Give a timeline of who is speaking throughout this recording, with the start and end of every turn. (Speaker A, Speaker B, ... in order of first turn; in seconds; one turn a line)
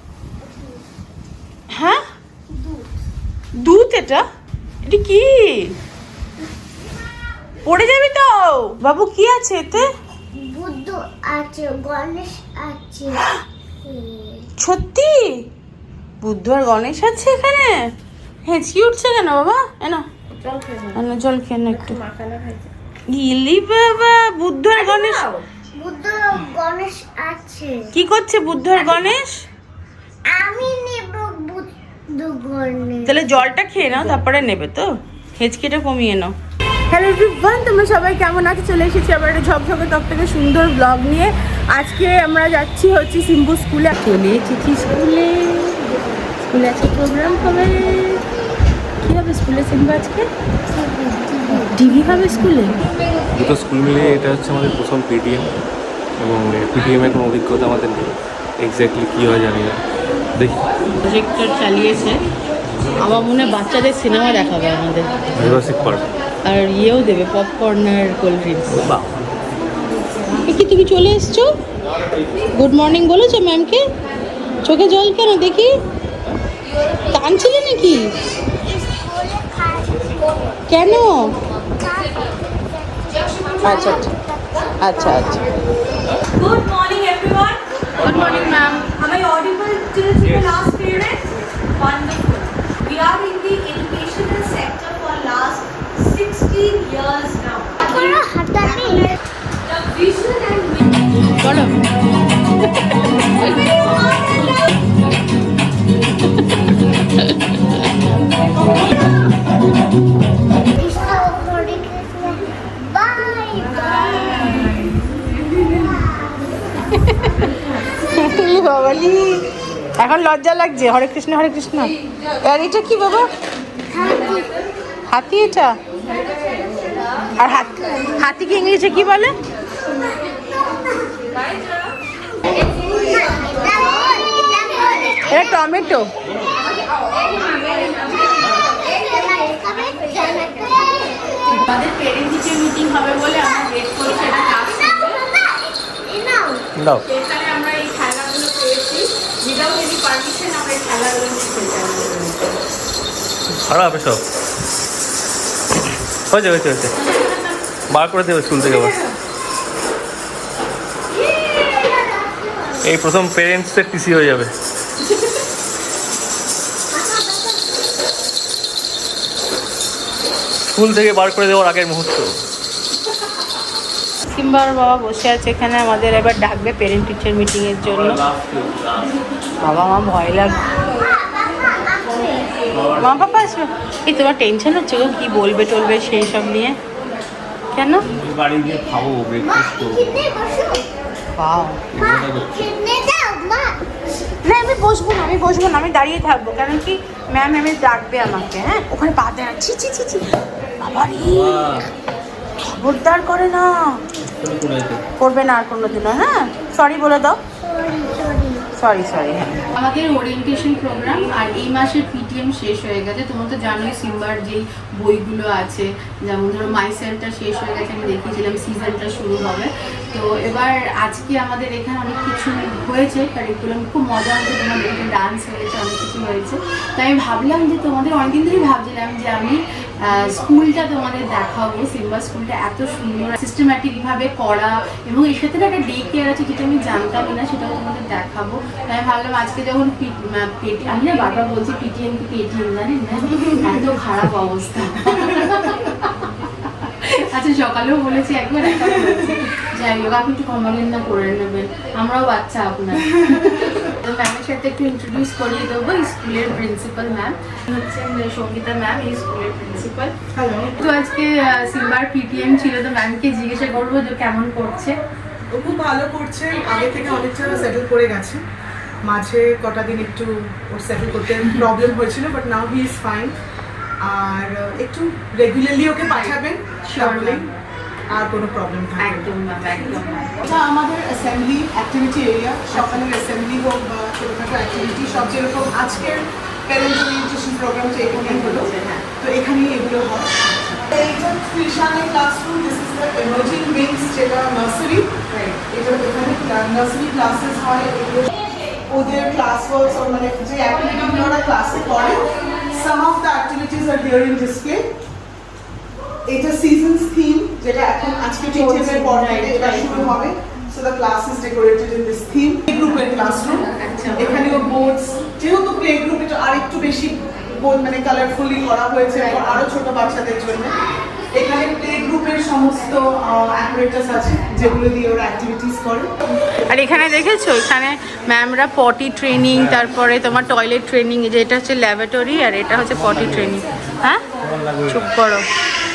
Speaker A: 0.4-0.8
Speaker B: 1.7-2.0
Speaker A: 2.5-2.8
Speaker B: 3.6-4.2
Speaker B: 4.8-5.7
Speaker B: 7.7-9.9
Speaker A: 10.3-13.2
Speaker A: 13.8-14.5
Speaker B: 14.6-15.4
Speaker B: 16.2-17.8
Speaker B: 18.4-20.1
Speaker B: 20.9-22.0
Speaker B: 23.1-25.3
Speaker A: 25.7-27.9
Speaker B: 27.9-29.4
Speaker A: 28.7-29.1
Speaker A: 30.2-33.2
Speaker B: 33.0-36.3
Speaker B: 36.9-48.3
Speaker A: 47.3-48.1
Speaker B: 49.0-50.3
Speaker A: 50.7-51.7
Speaker B: 51.6-52.8
Speaker C: 53.3-55.5
Speaker C: 56.2-59.8
Speaker C: 60.4-60.7
Speaker B: 61.0-62.2
Speaker B: 63.0-65.1
Speaker C: 65.3-66.0
Speaker B: 66.4-68.8
Speaker C: 68.7-69.1
Speaker B: 70.4-71.5
Speaker B: 72.5-73.8
Speaker B: 74.6-75.7
Speaker B: 77.1-78.1
Speaker A: 78.3-80.8
Speaker B: 80.7-81.3
Speaker A: 81.6-85.6
Speaker B: 83.6-84.1
Speaker B: 84.8-85.4
Speaker D: 86.4-87.6
Speaker B: 88.0-88.9
Speaker C: 88.0-88.5
Speaker D: 88.2-91.1
Speaker C: 90.2-90.9
Speaker D: 91.8-97.8
Speaker A: 97.8-99.2
Speaker D: 100.0-100.6
Speaker B: 101.4-101.8
Speaker A: 110.7-114.4
Speaker B: 114.3-114.8
Speaker A: 115.7-116.5
Speaker B: 116.9-117.5
Speaker B: 118.0-119.4
Speaker B: 120.0-123.2
Speaker A: 123.9-124.6
Speaker B: 125.1-125.8
Speaker B: 127.4-129.3
Speaker A: 132.3-135.6
Speaker B: 135.3-136.1
Speaker A: 137.0-141.7
Speaker B: 141.5-145.2
Speaker A: 144.5-146.6
Speaker B: 147.0-152.6
Speaker C: 153.6-154.2
Speaker C: 156.3-156.9
Speaker B: 157.0-157.5
Speaker C: 157.9-158.9
Speaker A: 161.1-162.9
Speaker C: 162.8-164.5
Speaker A: 166.9-167.8
Speaker C: 170.7-172.3
Speaker B: 174.2-178.2
Speaker C: 177.8-179.2
Speaker B: 179.6-180.7
Speaker A: 180.4-182.9
Speaker C: 182.7-183.1
Speaker B: 182.9-186.8
Speaker B: 187.7-188.1
Speaker C: 188.1-190.0
Speaker A: 189.4-190.9
Speaker B: 191.3-191.8
Speaker C: 191.9-192.6
Speaker A: 191.9-193.8
Speaker B: 194.4-200.2
Speaker B: 200.8-201.8
Speaker C: 201.1-201.8
Speaker B: 202.7-203.7
Speaker C: 204.4-205.0
Speaker B: 205.2-207.4
Speaker A: 207.6-208.7
Speaker B: 208.8-246.3
Speaker B: 247.0-260.1
Speaker E: 253.1-253.8
Speaker E: 260.3-260.8
Speaker B: 260.8-264.9
Speaker E: 265.5-268.4
Speaker E: 269.0-273.3
Speaker E: 274.0-277.5
Speaker B: 276.1-277.5
Speaker E: 278.1-279.2
Speaker B: 279.0-280.5
Speaker E: 280.4-304.9
Speaker B: 282.7-283.0
Speaker B: 288.1-289.0
Speaker E: 306.2-326.1
Speaker B: 308.5-310.2
Speaker B: 313.6-314.6
Speaker B: 319.2-319.6
Speaker B: 326.7-334.2
Speaker C: 332.9-333.5
Speaker C: 334.4-335.1
Speaker B: 334.9-335.4